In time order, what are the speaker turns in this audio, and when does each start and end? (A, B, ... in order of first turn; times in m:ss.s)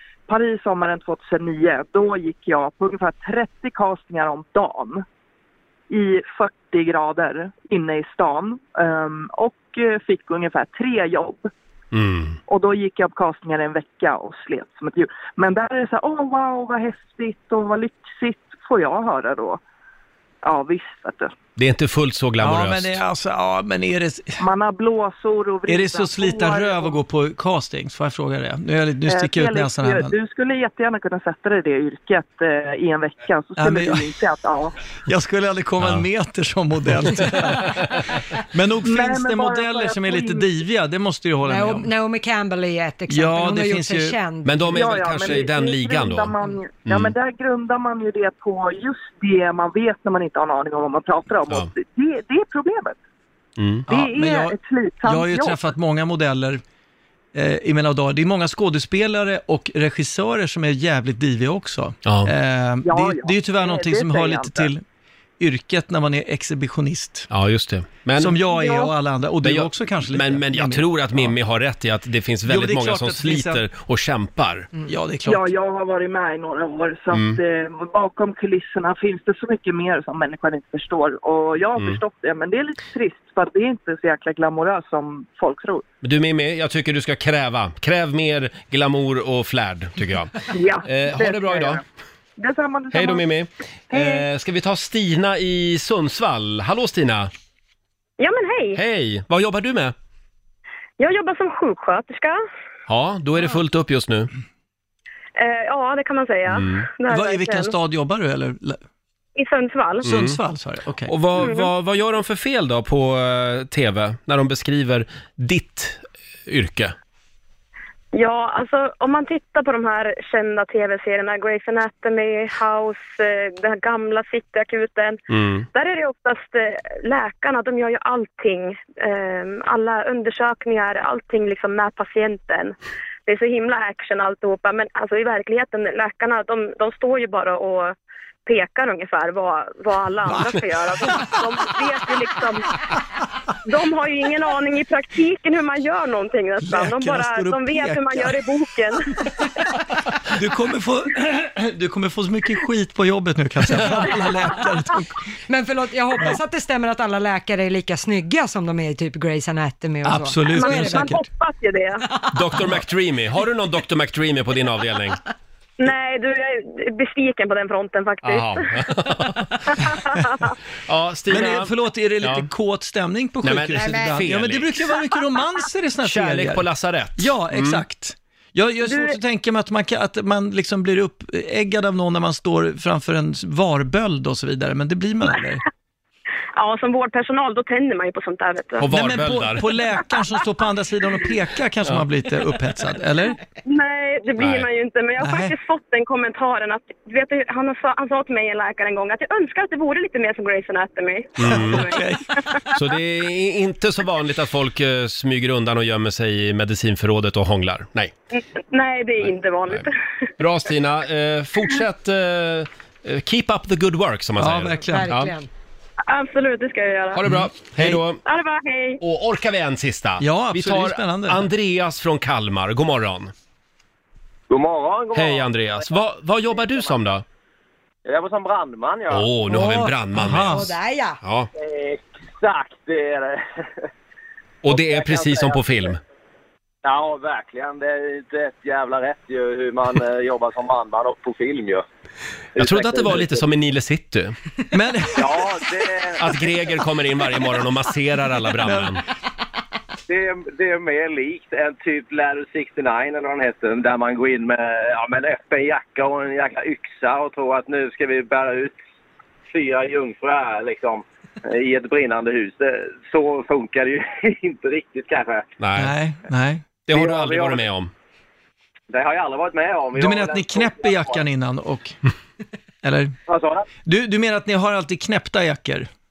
0:00.3-0:05.0 A
0:05.9-0:11.5 A
0:11.9-0:12.4 B
0:12.5-0:19.6 A
0:20.4-0:21.3 A
0:21.6-0:23.0 B
0:22.4-0:24.4 C
0:24.4-0:27.0 A
0:25.7-0:30.1 C
0:29.1-0:34.7 A
0:33.6-0:34.1 C
0:35.0-0:37.8 C
0:35.8-0:36.0 B
0:38.5-0:41.9 C
0:38.9-0:40.4 A
0:41.4-0:44.7 D
0:43.1-0:44.2 C
0:44.4-0:46.3 B
0:44.7-0:53.0 A
0:46.9-0:47.1 B
0:53.6-0:53.9 B
0:53.9-0:56.6 C
0:53.9-0:55.6 A
0:57.3-1:04.8 C
1:02.0-1:02.3 B
1:02.9-1:04.6 A
1:05.4-1:07.3 C
1:07.3-1:08.4 B
1:08.2-1:11.3 C
1:09.4-1:14.7 B
1:12.4-1:13.6 C
1:14.9-1:15.5 C
1:15.3-1:25.8 A
1:17.1-1:17.4 B
1:26.0-1:31.8 B
1:30.5-1:31.8 A
1:32.4-1:33.3 A
1:32.9-1:37.3 B
1:33.9-1:34.2 A
1:38.2-1:38.8 E
1:38.7-1:39.9 B
1:41.0-1:42.4 E
1:42.9-1:44.3 B
1:45.4-1:47.7 E
1:46.5-1:46.9 B
1:47.1-1:48.8 C
1:49.4-1:50.2 E
1:50.0-1:50.4 B
1:50.0-1:51.1 C
1:51.1-1:56.9 B
1:51.4-1:51.7 E
1:58.1-2:05.2 E
2:05.3-2:05.6 B
2:05.7-2:18.0 E
2:18.4-2:22.7 E
2:20.2-2:22.1 C
2:23.6-2:29.1 E
2:26.6-2:28.5 C
2:30.3-2:35.1 C
2:35.5-2:41.2 D
2:40.0-2:41.2 C
2:40.5-2:42.1 E
2:42.3-2:45.2 B
2:45.8-2:48.7 E
2:48.2-2:49.6 B
2:49.8-2:50.5 E
2:50.9-2:52.5 B
2:51.3-2:56.6 C
2:53.4-2:54.9 B
2:53.8-2:54.2 D
2:56.0-2:57.8 B
2:57.2-3:05.6 C
3:06.6-3:08.9 E
3:08.8-3:09.6 B
3:08.9-3:13.4 C
3:13.6-3:22.1 E
3:14.4-3:14.7 B
3:15.2-3:15.5 C
3:21.4-3:21.9 B
3:21.4-3:22.4 C
3:22.7-3:28.1 B
3:28.3-3:30.0 E
3:29.2-3:29.9 B
3:30.4-3:35.3 B
3:34.4-3:35.1 C
3:34.8-3:35.5 D
3:36.1-3:37.2 E
3:37.1-3:38.2 B
3:37.2-3:38.0 C
3:38.2-3:39.0 E
3:39.0-3:43.3 B
3:40.2-3:41.5 C
3:44.5-3:46.9 F
3:45.1-3:47.2 B
3:48.0-3:49.3 F
3:49.1-3:50.7 B
3:49.5-3:51.2 D
3:50.2-3:50.7 C
3:51.2-3:51.5 B
3:51.6-3:53.4 F
3:54.6-3:56.0 B
3:54.7-3:55.9 F
3:56.8-4:01.8 F
4:02.6-4:03.4 F
4:02.6-4:04.3 B
4:04.7-4:05.6 C
4:05.2-4:06.2 F
4:06.2-4:09.0 B
4:08.6-4:08.9 C
4:10.1-4:18.8 F
4:19.5-4:25.5 F
4:25.6-4:26.0 B
4:25.8-4:26.8 C
4:26.9-4:27.9 B
4:26.9-4:27.6 F
4:28.9-4:31.2 F
4:29.9-4:32.0 C
4:32.8-4:33.2 C
4:33.3-4:33.7 F
4:33.8-4:35.9 C